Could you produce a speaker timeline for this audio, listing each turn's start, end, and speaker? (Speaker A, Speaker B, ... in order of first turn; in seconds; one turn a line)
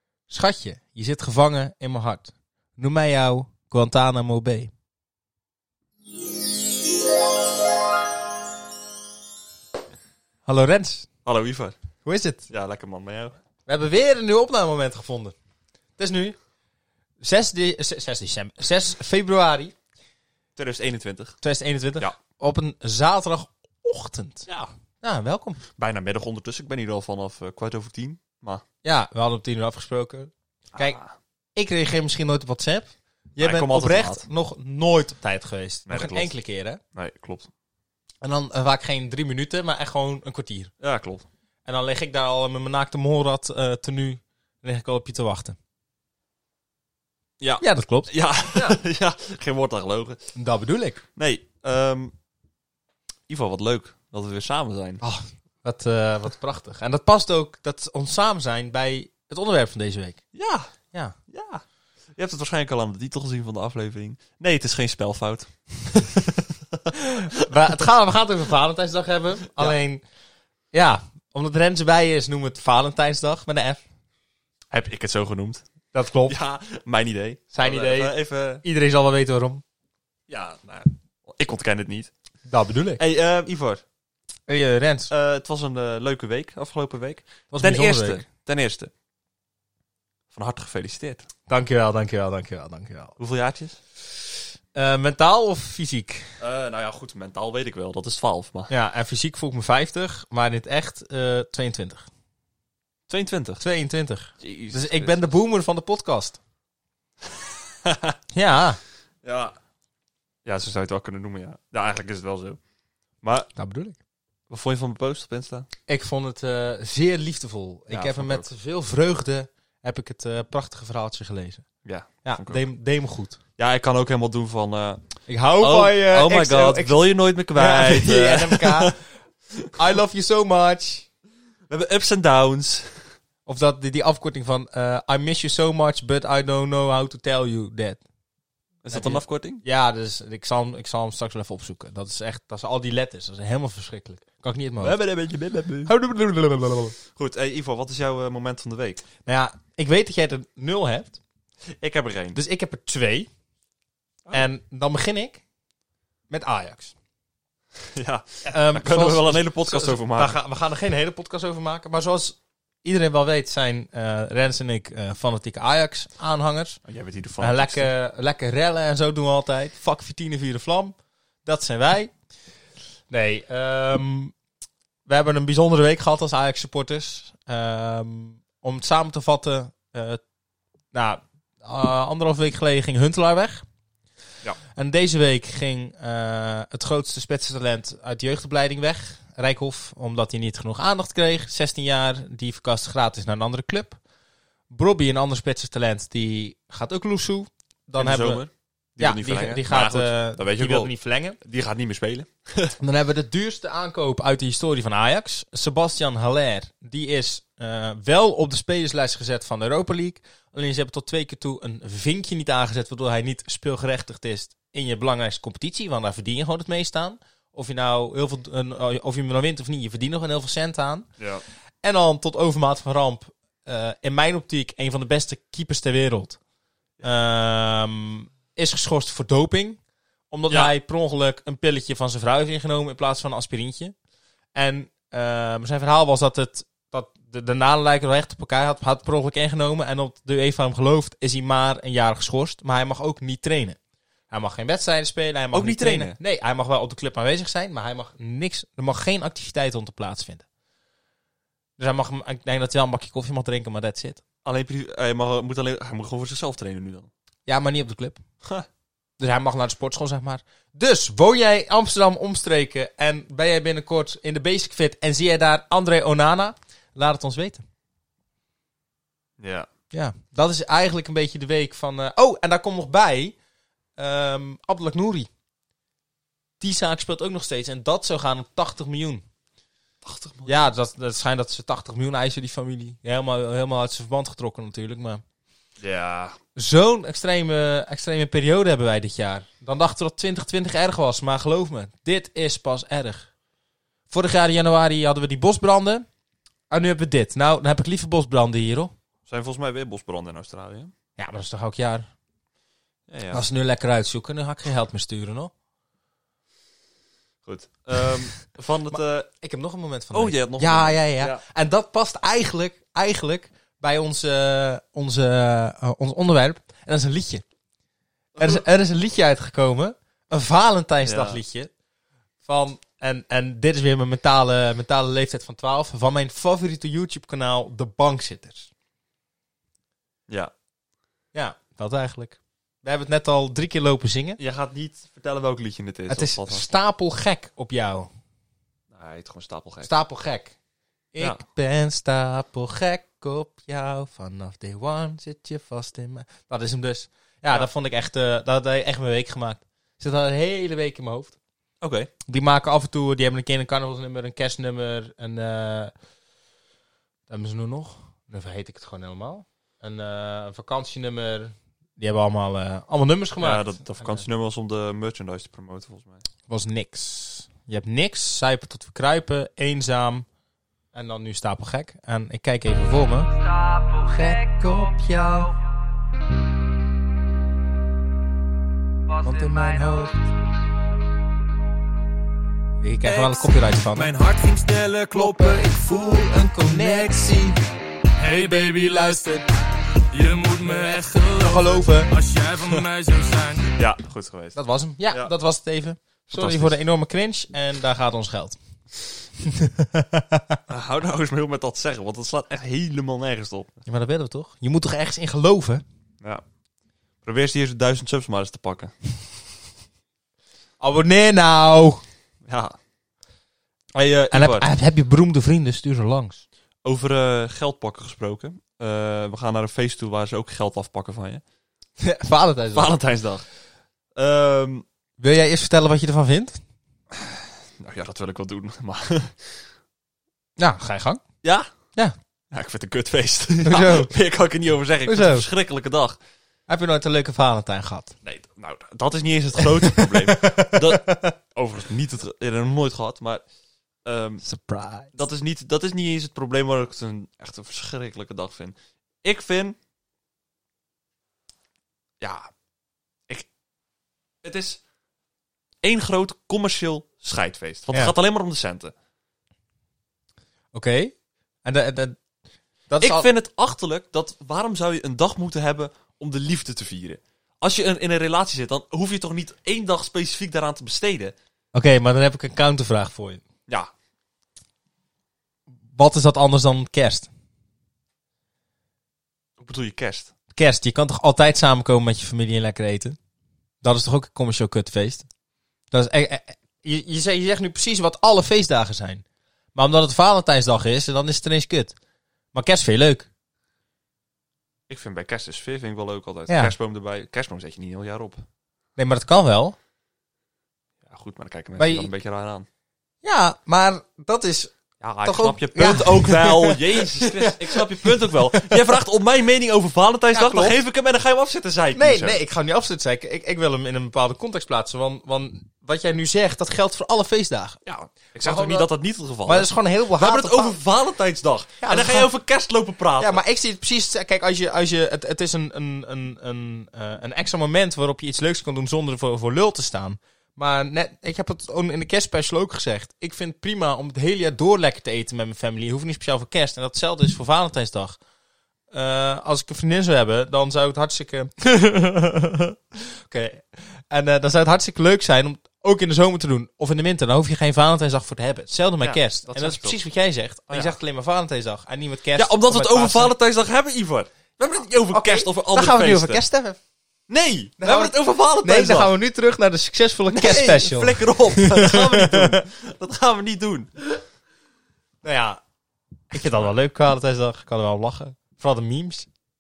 Speaker A: 0.3-4.7
Speaker A: 10.5-11.1
Speaker B: 11.2-11.8
Speaker A: 12.1-12.5
Speaker B: 12.5-13.3
Speaker A: 13.7-15.3
Speaker A: 16.0-16.4
Speaker A: 17.2-19.7
Speaker B: 20.6-21.4
Speaker A: 21.4-24.5
Speaker A: 25.0-25.6
Speaker B: 25.8-28.6
Speaker A: 28.8-31.0
Speaker B: 30.8-31.1
Speaker A: 31.6-36.8
Speaker B: 33.4-34.2
Speaker B: 35.9-36.3
Speaker B: 36.9-37.5
Speaker A: 38.2-40.7
Speaker B: 40.8-41.2
Speaker A: 41.6-45.6
Speaker B: 47.4-50.2
Speaker A: 47.6-48.8
Speaker A: 50.4-51.0
Speaker B: 51.2-52.1
Speaker B: 53.3-55.0
Speaker A: 55.0-60.2
Speaker B: 60.3-60.7
Speaker B: 61.3-61.6
Speaker B: 62.2-66.9
Speaker A: 67.2-70.0
Speaker A: 70.7-73.8
Speaker B: 74.7-75.7
Speaker A: 75.9-76.4
Speaker B: 76.3-78.6
Speaker A: 77.5-79.6
Speaker B: 80.3-82.1
Speaker A: 82.5-83.0
Speaker B: 83.0-83.8
Speaker A: 84.5-85.1
Speaker B: 85.1-88.9
Speaker A: 87.5-88.2
Speaker B: 90.3-91.3
Speaker A: 91.5-93.2
Speaker B: 93.2-93.8
Speaker A: 94.8-96.3
Speaker B: 96.4-98.7
Speaker A: 98.7-102.1
Speaker B: 103.1-103.6
Speaker A: 103.6-106.4
Speaker B: 104.4-105.2
Speaker B: 107.8-108.2
Speaker A: 108.3-108.8
Speaker B: 109.2-109.5
Speaker B: 110.5-112.6
Speaker B: 113.2-113.5
Speaker A: 113.6-114.0
Speaker B: 114.5-115.7
Speaker A: 115.9-121.7
Speaker B: 117.9-118.5
Speaker B: 121.8-122.6
Speaker A: 122.2-123.4
Speaker B: 123.6-125.0
Speaker A: 125.3-129.0
Speaker B: 125.6-129.0
Speaker A: 129.8-131.1
Speaker B: 131.7-133.0
Speaker A: 133.5-138.0
Speaker B: 138.8-139.6
Speaker A: 138.9-145.0
Speaker B: 144.8-145.9
Speaker A: 145.9-147.0
Speaker B: 147.2-149.0
Speaker A: 149.3-151.2
Speaker B: 151.8-152.4
Speaker A: 152.3-153.3
Speaker A: 154.3-155.4
Speaker A: 156.3-156.9
Speaker B: 157.9-160.3
Speaker A: 158.4-166.8
Speaker B: 166.9-167.9
Speaker A: 167.4-172.1
Speaker A: 173.1-174.3
Speaker A: 175.1-180.2
Speaker A: 180.9-183.6
Speaker A: 184.7-194.0
Speaker A: 194.7-198.4
Speaker B: 198.0-202.8
Speaker A: 199.0-201.4
Speaker A: 202.8-221.1
Speaker A: 221.8-226.4
Speaker A: 227.0-229.8
Speaker A: 230.3-233.9
Speaker A: 234.6-243.8
Speaker A: 244.3-250.4
Speaker B: 245.5-246.2
Speaker A: 251.8-254.2
Speaker B: 254.4-257.1
Speaker A: 257.5-258.2
Speaker A: 259.2-267.6
Speaker B: 269.4-269.7
Speaker A: 269.9-273.4
Speaker A: 274.0-275.3
Speaker A: 276.6-279.2
Speaker B: 280.0-280.6
Speaker A: 280.5-285.2
Speaker B: 285.8-286.4
Speaker A: 286.6-293.3
Speaker A: 294.1-296.1
Speaker A: 296.7-298.9
Speaker B: 299.3-300.9
Speaker A: 301.2-302.1
Speaker B: 303.1-303.4
Speaker A: 303.3-305.5
Speaker B: 307.4-309.3
Speaker A: 308.9-317.4
Speaker B: 310.1-311.4
Speaker B: 318.4-318.6
Speaker A: 318.4-321.7
Speaker B: 321.1-321.4
Speaker A: 322.4-328.7
Speaker B: 330.3-330.5
Speaker A: 331.3-334.4
Speaker B: 334.4-336.7
Speaker A: 336.1-338.1
Speaker B: 338.9-339.9
Speaker A: 339.8-340.6
Speaker A: 341.1-351.4
Speaker B: 351.8-352.1
Speaker A: 352.3-355.9
Speaker A: 357.3-364.2
Speaker B: 363.4-366.2
Speaker A: 366.5-370.3
Speaker A: 370.9-373.4
Speaker C: 373.6-375.4
Speaker A: 374.0-375.5
Speaker C: 379.2-380.1
Speaker A: 379.2-380.2
Speaker A: 382.8-384.1
Speaker C: 383.1-387.6
Speaker A: 385.1-385.6
Speaker A: 386.6-387.5
Speaker C: 388.2-389.5
Speaker C: 390.1-393.8
Speaker A: 391.4-392.1
Speaker B: 393.8-394.6
Speaker A: 394.6-398.6
Speaker B: 396.3-396.8
Speaker A: 399.4-400.6
Speaker B: 400.7-403.7
Speaker A: 403.9-405.8
Speaker B: 407.2-408.9
Speaker A: 410.8-412.0
Speaker B: 412.4-412.8
Speaker B: 413.9-414.7
Speaker A: 414.3-416.4
Speaker B: 416.8-421.4
Speaker A: 422.0-423.0
Speaker B: 422.7-423.4
Speaker B: 424.1-424.9
Speaker A: 425.2-426.6
Speaker B: 427.1-429.6
Speaker A: 430.6-431.2
Speaker B: 431.4-431.7
Speaker B: 432.5-436.2
Speaker A: 433.6-434.1
Speaker A: 435.1-435.5
Speaker A: 436.7-438.1
Speaker B: 438.2-443.4
Speaker A: 439.6-441.4
Speaker B: 444.1-444.4
Speaker A: 444.4-445.1
Speaker B: 445.1-449.8
Speaker B: 452.2-452.5
Speaker B: 454.4-454.8
Speaker B: 455.8-458.9
Speaker A: 460.7-462.2
Speaker A: 462.9-463.3
Speaker B: 463.0-471.4
Speaker A: 471.7-473.4
Speaker A: 475.9-477.3
Speaker B: 479.6-480.3
Speaker A: 480.6-483.2
Speaker A: 483.8-485.3
Speaker A: 485.9-489.2
Speaker A: 489.8-491.9
Speaker A: 492.5-493.3
Speaker B: 494.9-498.4
Speaker A: 496.5-496.7
Speaker A: 499.0-499.8
Speaker B: 501.0-502.7
Speaker A: 501.8-502.1
Speaker A: 503.2-509.0
Speaker B: 505.0-512.4
Speaker A: 510.3-510.8
Speaker A: 511.9-517.8
Speaker B: 517.9-523.4
Speaker A: 518.4-518.9
Speaker A: 519.5-520.8
Speaker A: 521.8-522.3
Speaker A: 523.2-538.2
Speaker A: 538.9-553.4
Speaker B: 549.0-550.0
Speaker B: 550.7-551.0
Speaker B: 552.4-556.4
Speaker A: 555.1-556.8
Speaker B: 557.3-559.1
Speaker A: 557.8-562.6
Speaker B: 560.3-563.9
Speaker A: 565.2-565.6
Speaker A: 566.3-569.3
Speaker B: 566.4-566.7